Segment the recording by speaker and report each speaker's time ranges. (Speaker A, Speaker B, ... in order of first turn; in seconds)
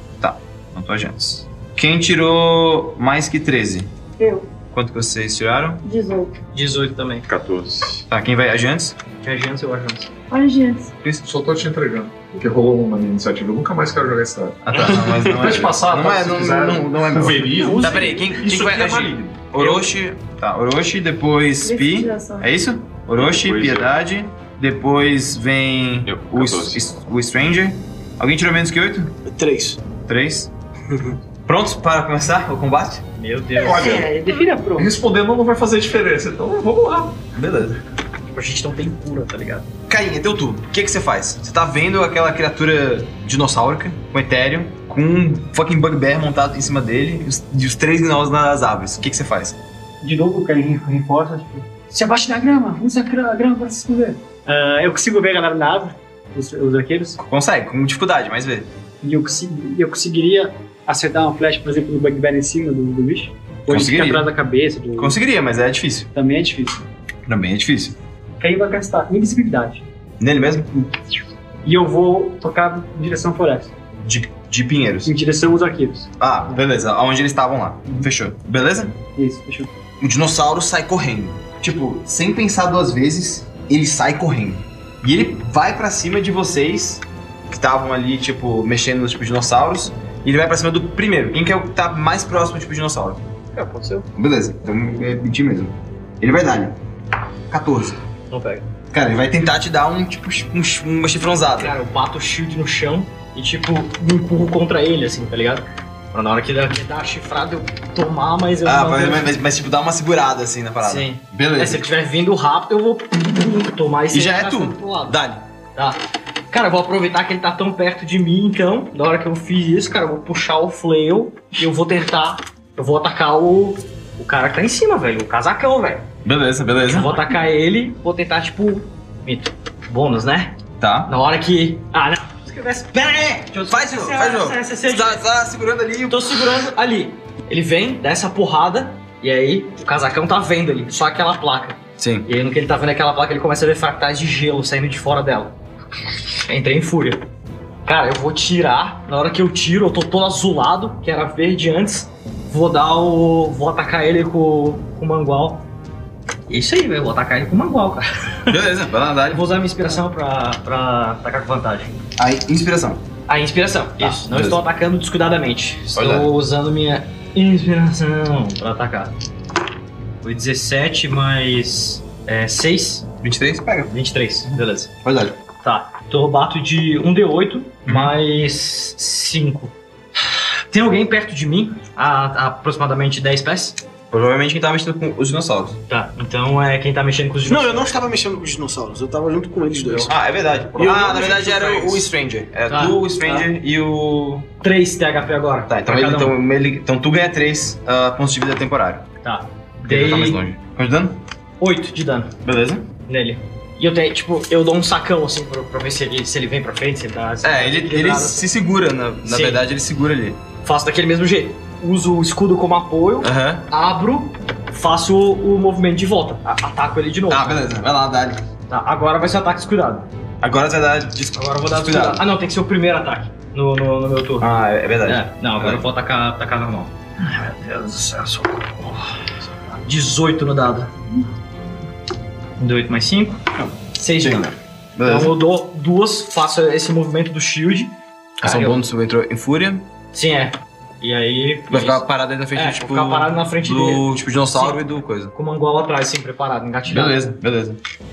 Speaker A: 0.2-3.9, 4.7-5.8, 8.1-9.0, 14.6-29.1, 30.1-30.5, 31.4-33.0, 37.3-37.8, 39.9-49.6, 57.2-58.7, 63.7-64.3, 65.0-66.1, 67.2-68.0, 70.2-70.7, 74.0-75.1, 76.2-79.0, 80.0-93.2, 94.1-96.8, 97.5-98.0, 98.9-101.7, 108.6-111.9, 114.1-115.4, 126.2-127.2, 130.8-131.1, 133.7-136.4, 142.0-142.3, 158.5-159.4, 162.2-163.0, 164.0-164.6, 165.9-166.3, 173.2-173.9, 175.0-175.4, 184.1-185.8, 190.0-194.5, 195.7-199.1, 199.8-201.2, 202.4-202.9, 207.4-210.4, 213.2-213.7, 217.3-218.4, 220.4-222.2, 224.4-225.9, 234.2-235.3, 238.4-239.8, 241.7-245.3, 246.8-247.8
Speaker B: 4.2-4.5, 5.8-6.3, 10.3-10.9, 21.6-22.5
Speaker C: 6.5-7.2, 9.2-10.1, 17.7-18.0, 33.2-34.1, 38.3-39.6, 93.5-94.1, 98.3-98.7, 101.6-109.3, 110.8-115.2, 116.5-126.1, 126.9-130.5, 131.1-135.2, 136.1-145.6, 146.4-147.2, 147.8-155.6, 156.5-158.6, 159.3-162.0, 163.3-169.1, 170.2-173.1, 173.9-174.9, 175.6-183.8, 185.9-187.8, 192.7-193.5, 194.6-196.4, 199.2-200.5, 201.6-202.3, 203.1-208.5, 209.2-209.6, 210.6-217.7, 218.7-220.1, 221.3-224.5, 225.0-229.1, 229.7-230.9, 232.6-238.8, 240.1-247.2
Speaker D: 7.3-8.0, 14.8-15.3, 23.1-23.9, 26.0-26.8
Speaker E: 11.2-14.6, 15.3-19.4, 33.6-34.1, 34.8-37.2
Speaker F: 17.6-18.1, 33.8-34.9, 50.0-57.2, 59.0-65.2, 66.1-66.8, 68.4-69.8, 71.6-73.7, 75.0-76.6, 79.1-79.7
Speaker G: 29.2-29.8, 187.4-190.1